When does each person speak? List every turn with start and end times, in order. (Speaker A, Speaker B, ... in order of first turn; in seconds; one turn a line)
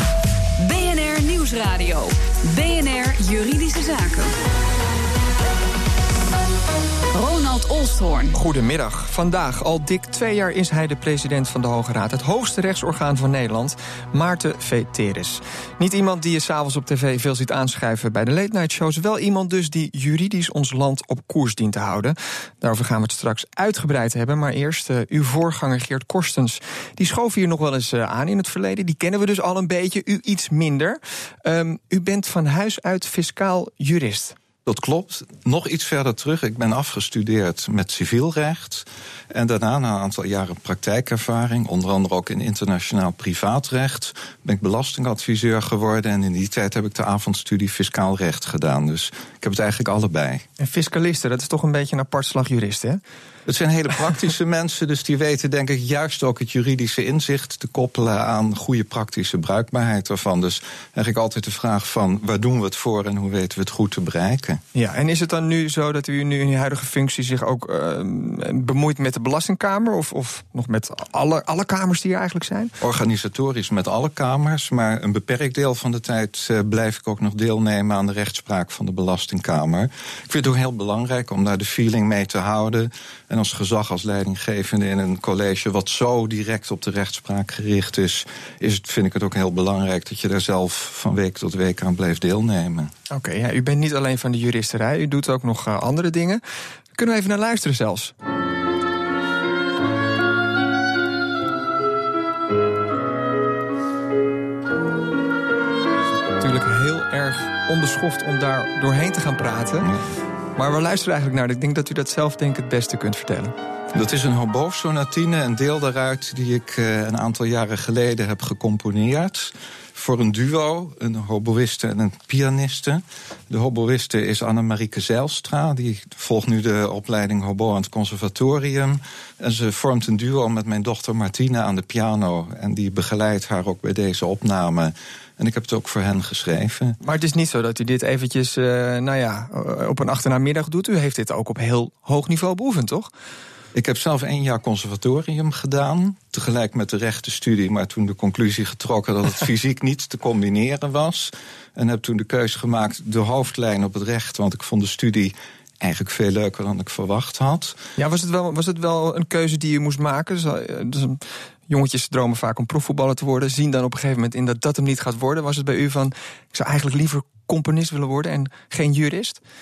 Speaker A: 0.6-4.3
Speaker A: 7.1-8.4
Speaker B: 8.3-34.4
Speaker C: 34.7-50.5
Speaker B: 50.6-53.0
Speaker C: 53.5-64.6
Speaker B: 64.8-72.7
Speaker C: 72.8-92.9
Speaker B: 93.1-96.4
Speaker B: 97.0-98.1
Speaker B: 106.4-109.9
Speaker B: 110.6-113.5
Speaker C: 113.9-137.0
Speaker B: 137.0-143.1
Speaker C: 143.7-157.8
Speaker B: 158.0-169.4